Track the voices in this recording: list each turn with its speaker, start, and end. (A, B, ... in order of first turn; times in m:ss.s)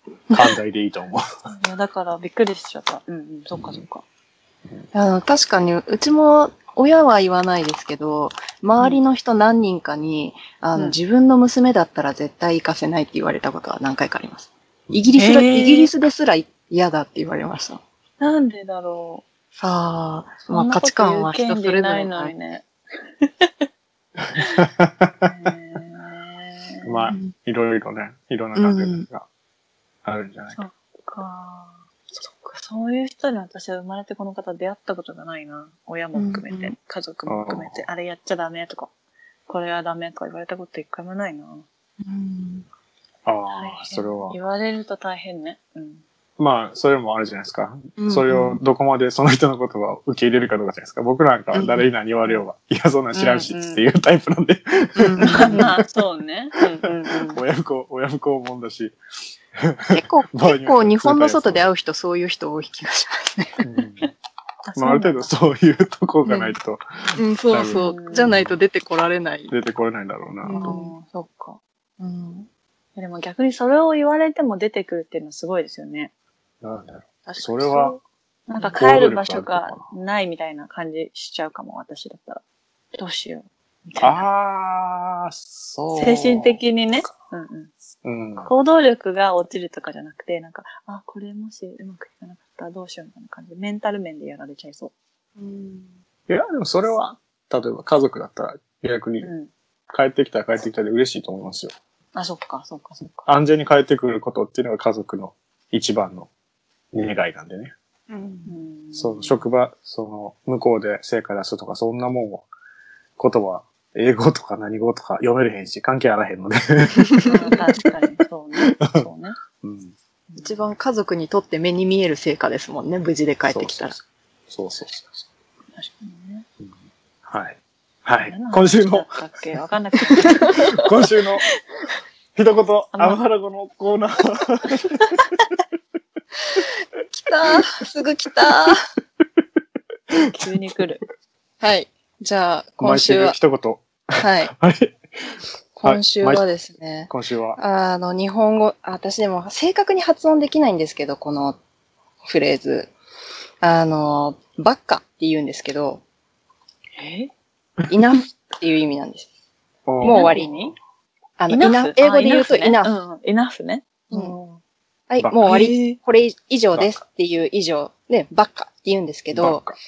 0:00.3-0:01.2 A
0:01.5-0:04.0 B
0:03.5-0:03.8 A
0:04.9-0:17.8 C
0:15.2-0:15.9 B
0:18.2-0:19.2 B
0:19.6-0:22.3 C
0:20.5-0:22.7 B
0:23.2-0:23.5 B
0:24.2-0:25.3 A
0:24.4-0:24.6 B
0:25.2-0:26.9 B
0:26.8-0:29.2 A
0:28.5-0:29.0 C
0:30.0-0:30.6 A
0:30.5-0:38.9 B
0:36.1-0:36.7 C
0:37.3-0:37.8 A
0:39.5-0:41.6 B
0:42.0-0:42.6 C
0:43.2-0:44.4 A
0:43.5-0:46.0 B
0:46.4-0:55.8 A
0:48.0-0:48.6 C
0:51.5-0:51.8 C
0:53.1-0:53.8 B
0:55.0-0:55.7 C
0:55.2-0:57.4 B
0:56.8-0:58.9 A
0:59.6-1:01.7 A
0:59.9-1:03.6 C
1:03.6-1:04.1 A
1:04.7-1:05.3 B
1:04.8-1:07.8 A
1:06.2-1:06.6 C
1:07.2-1:09.5 C
1:07.7-1:08.3 B
1:08.3-1:08.5 A
1:09.5-1:10.8 A
1:10.4-1:10.9 C
1:10.5-1:11.6 B
1:12.0-1:12.4 C
1:13.0-1:16.1 B
1:16.6-1:18.0 A
1:17.3-1:18.0 C
1:18.5-1:22.4 B
1:18.7-1:19.8 A
1:22.9-1:24.2 B
1:24.0-1:26.6 A
1:26.0-1:27.7 B
1:28.0-1:28.5 A
1:28.4-1:34.9 B
1:35.4-1:35.9 C
1:36.3-1:39.3 A
1:39.2-1:39.5 B
1:39.9-1:41.7 A
1:42.1-1:43.3 B
1:43.3-1:46.3 A
1:46.9-1:47.7 A
1:48.1-1:48.5 C
1:48.5-1:49.4 B
1:48.9-1:52.5 A
1:53.2-1:57.9 A
1:57.0-1:57.3 C
1:57.2-1:59.4 B
1:58.6-1:59.0 A
1:59.6-1:59.9 A
2:00.4-2:04.0 C
2:03.5-2:05.2 A
2:05.7-2:06.4 B
2:06.6-2:09.1 A
2:08.2-2:10.8 B
2:10.1-2:11.4 A
2:10.2-2:10.8 C
2:12.3-2:15.2 A
2:12.9-2:13.2 B
2:16.5-2:18.8 C
2:20.3-2:21.0 B
2:21.6-2:23.4 C
2:22.8-2:25.0 A
2:24.2-2:24.5 C
2:25.8-2:31.6 C
2:25.8-2:26.4 A
2:27.1-2:27.6 A
2:32.2-2:32.9 C
2:33.6-2:36.0 C
2:37.0-2:37.3 B
2:37.9-2:39.3 C
2:39.8-2:40.5 A
2:40.0-2:40.5 C
2:40.0-2:40.7 B
2:41.4-2:42.9 C
2:41.5-2:44.6 B
2:45.1-2:49.7 C
2:45.4-2:46.0 B
2:49.3-2:49.7 A